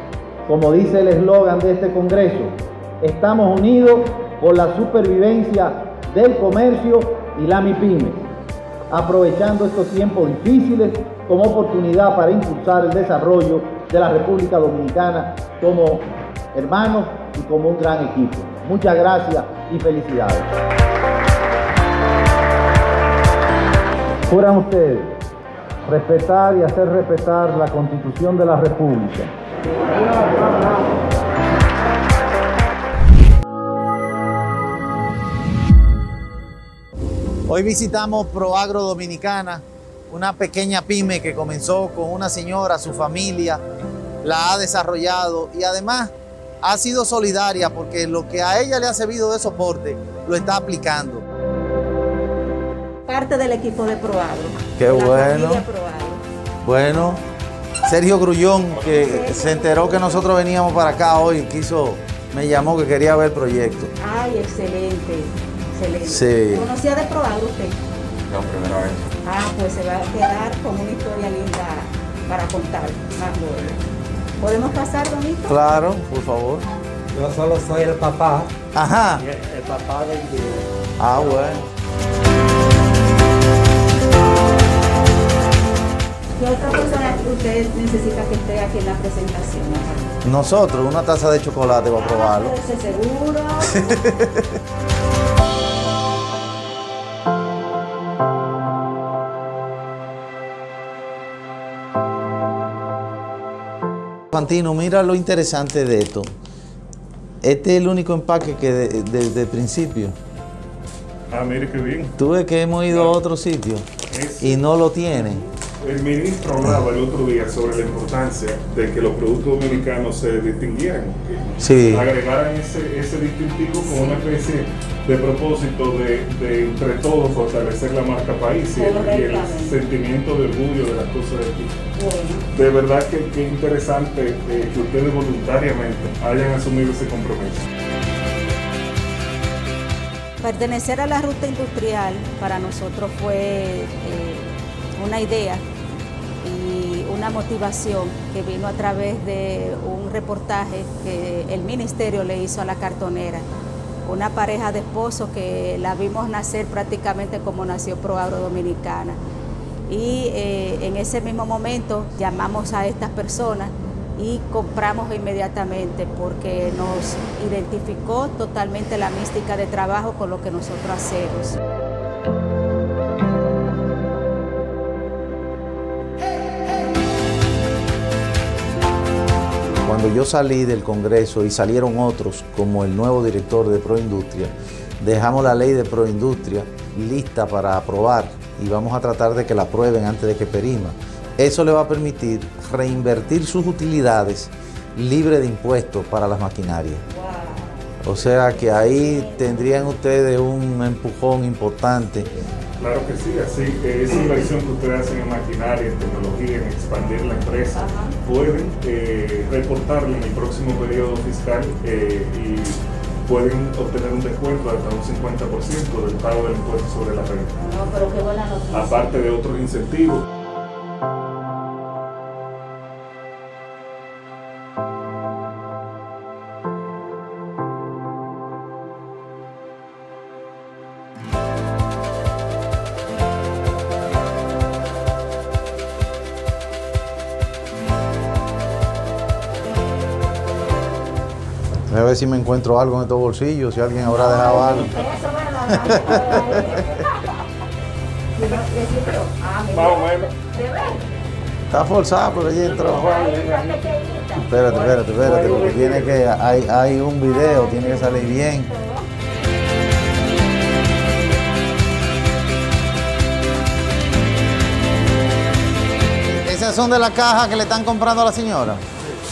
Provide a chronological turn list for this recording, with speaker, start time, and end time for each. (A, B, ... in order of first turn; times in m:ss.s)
0:00.5-0:08.2 A
0:08.9-0:20.5 A
0:24.3-0:25.2 A
0:25.8-0:29.3 A
0:37.5-0:43.6 A
0:44.2-0:51.2 A
0:53.0-0:56.2 B
0:54.8-0:55.6 A
0:56.6-0:57.2 A
0:57.8-1:03.9 A
0:58.8-1:00.3 B
1:04.0-1:07.8 B
1:06.0-1:06.7 A
1:09.2-1:13.8 B
1:14.4-1:15.6 B
1:15.5-1:16.7 A
1:17.1-1:18.5 C
1:18.7-1:19.3 A
1:19.3-1:20.7 C
1:21.0-1:21.6 A
1:26.4-1:30.1 B
1:30.2-1:32.6 A
1:32.0-1:33.8 B
1:33.7-1:34.5 A
1:44.3-1:46.3 A
1:47.4-1:50.1 A
1:51.3-1:52.1 D
1:52.2-1:53.9 A
1:52.9-1:53.2 D
1:54.1-1:54.6 D
1:54.4-1:55.4 A
1:55.8-2:11.7 D
2:01.6-2:02.1 A
2:08.7-2:09.7 B
2:11.9-2:12.4 B
2:12.5-2:17.6 D
2:20.4-2:25.6 B
2:26.4-2:33.5 B
2:34.0-2:39.2 B
2:39.9-2:51.6 B
2:59.8-3:17.0 A
3:17.1-3:19.9 B
3:18.0-3:22.3 A
3:22.8-3:37.6 D
3:27.7-3:28.1 B
3:37.6-3:39.1 B
3:38.7-3:40.2 D
4:01.9-4:04.9 A
4:04.1-4:07.3 B
4:05.7-4:06.8 A
4:08.3-4:11.0 B
4:09.7-4:10.3 D
4:11.7-4:13.1 A
4:12.7-4:15.1 B
4:12.8-4:13.7 D
4:14.4-4:18.7 A
4:14.9-4:16.2 D
4:17.2-4:19.1 B
4:26.3-4:28.8 A